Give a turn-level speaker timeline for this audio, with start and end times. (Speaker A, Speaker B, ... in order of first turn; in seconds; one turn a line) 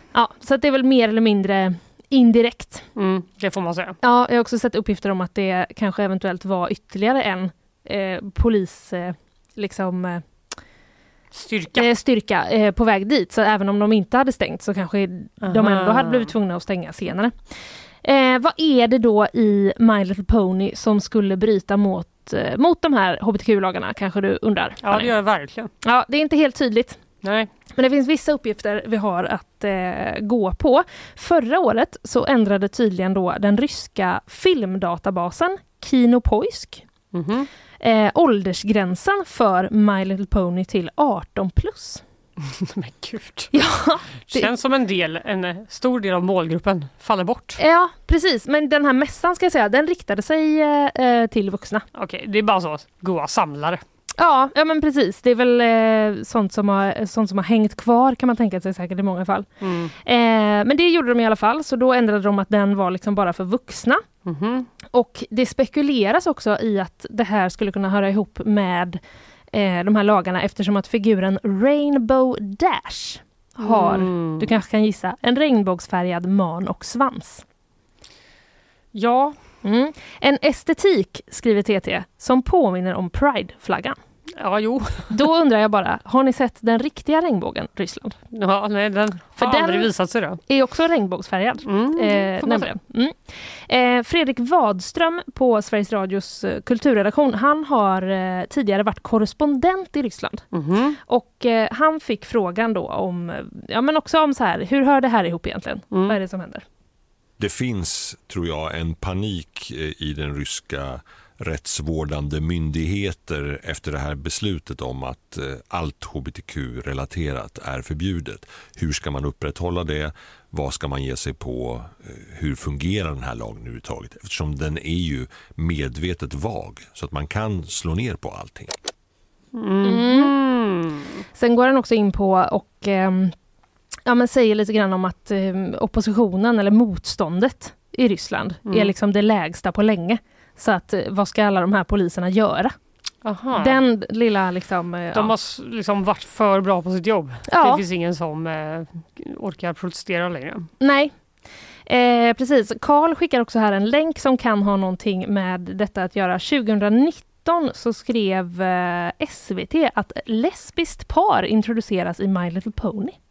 Speaker A: 0.1-2.8
Speaker B: 3.0-4.0
Speaker A: 4.0-10.2
Speaker B: 11.3-11.9
Speaker A: 11.8-17.4
Speaker B: 15.4-16.4
Speaker A: 18.0-25.1
Speaker B: 24.8-25.7
Speaker A: 25.8-27.0
Speaker B: 27.2-27.5
Speaker A: 27.8-36.9
Speaker B: 37.1-37.5
Speaker A: 37.8-42.0
Speaker B: 42.5-43.5
Speaker A: 43.5-44.5
Speaker B: 44.3-47.6
Speaker A: 47.6-51.9
Speaker B: 51.9-53.8
Speaker A: 54.2-59.5
Speaker B: 59.6-59.9
Speaker A: 60.0-64.0
Speaker B: 64.2-64.7
Speaker A: 64.9-69.0
Speaker A: 69.5-77.4
Speaker B: 73.6-74.5
Speaker B: 78.9-79.4
Speaker A: 79.6-84.0
Speaker B: 84.4-85.1
Speaker A: 85.1-88.2
Speaker B: 88.3-90.4
Speaker A: 89.4-89.9
Speaker A: 90.5-100.5
Speaker B: 91.7-92.7
Speaker B: 100.5-101.0
Speaker A: 101.0-106.6
Speaker B: 105.9-106.2
Speaker C: 107.4-128.7
Speaker B: 129.5-131.2
Speaker A: 129.8-130.3
Speaker A: 131.3-133.3
Speaker A: 134.1-142.7
Speaker B: 138.7-138.9
Speaker B: 143.2-143.8
Speaker A: 143.5-145.3
Speaker B: 145.1-150.7
Speaker A: 147.5-147.8
Speaker A: 150.8-151.1
Speaker A: 151.9-163.2